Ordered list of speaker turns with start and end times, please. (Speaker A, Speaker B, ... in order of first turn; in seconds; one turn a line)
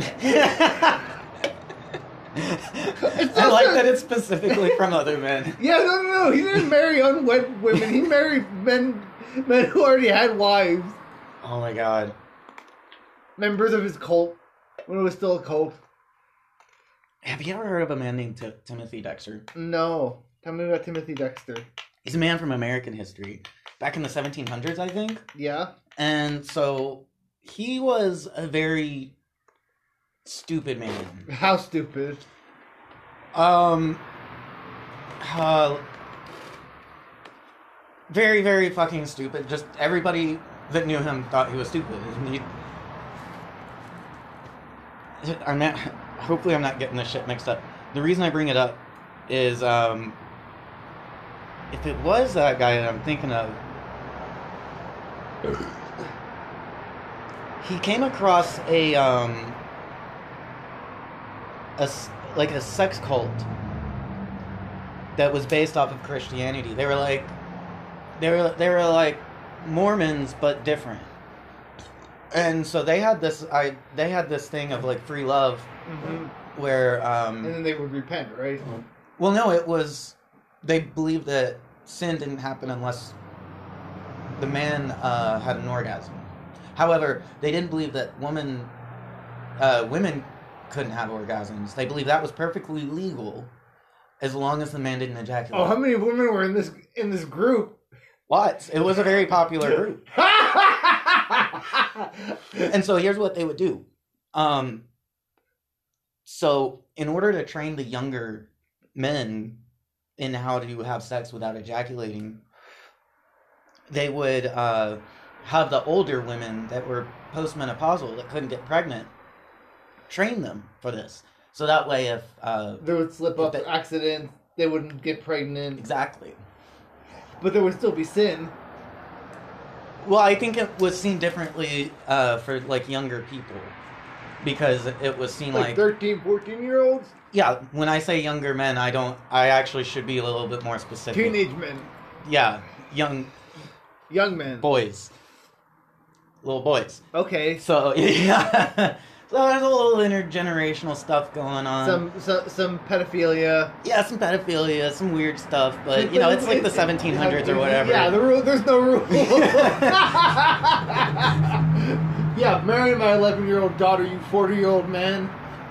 Speaker A: 0.1-1.1
Speaker B: 0.2-0.7
Speaker A: 2.4-5.6
Speaker B: 3.0-4.8
Speaker B: 5.6-11.0
Speaker A: 11.4-12.1
Speaker B: 13.4-15.8
Speaker A: 17.2-19.4
Speaker B: 19.6-21.7
Speaker A: 22.1-25.2
Speaker B: 25.4-25.7
Speaker A: 26.0-29.1
Speaker A: 30.2-31.3
Speaker B: 31.3-32.2
Speaker A: 33.4-34.0
Speaker A: 35.2-35.9
Speaker A: 38.1-42.5
Speaker A: 45.2-50.2
Speaker A: 51.7-53.6
Speaker A: 57.6-59.6
Speaker A: 61.8-63.5
Speaker A: 65.2-67.4
Speaker A: 68.2-71.1
Speaker A: 72.3-75.7
Speaker B: 75.9-76.3
Speaker A: 76.5-77.6
Speaker B: 77.4-78.7
Speaker A: 79.2-83.2
Speaker A: 84.4-88.7
Speaker A: 89.6-93.5
Speaker A: 94.2-95.8
Speaker B: 95.5-97.8
Speaker A: 98.3-100.0
Speaker B: 99.8-102.7
Speaker A: 102.7-104.8
Speaker A: 106.3-109.6
Speaker A: 110.2-112.4
Speaker A: 113.9-119.1
Speaker A: 120.1-122.8
Speaker B: 122.8-125.8
Speaker A: 123.4-123.7
Speaker A: 125.8-126.4
Speaker B: 127.4-128.5
Speaker A: 130.0-133.8
Speaker A: 134.4-135.9
Speaker B: 135.5-137.1
Speaker A: 137.3-141.4
Speaker B: 141.1-141.9
Speaker A: 142.2-143.3
Speaker B: 144.1-144.7
Speaker A: 144.6-145.1
Speaker A: 146.4-147.0
Speaker B: 147.1-147.6
Speaker A: 147.6-152.1
Speaker B: 151.8-153.7
Speaker A: 153.8-158.2
Speaker B: 155.9-165.4
Speaker A: 159.1-160.2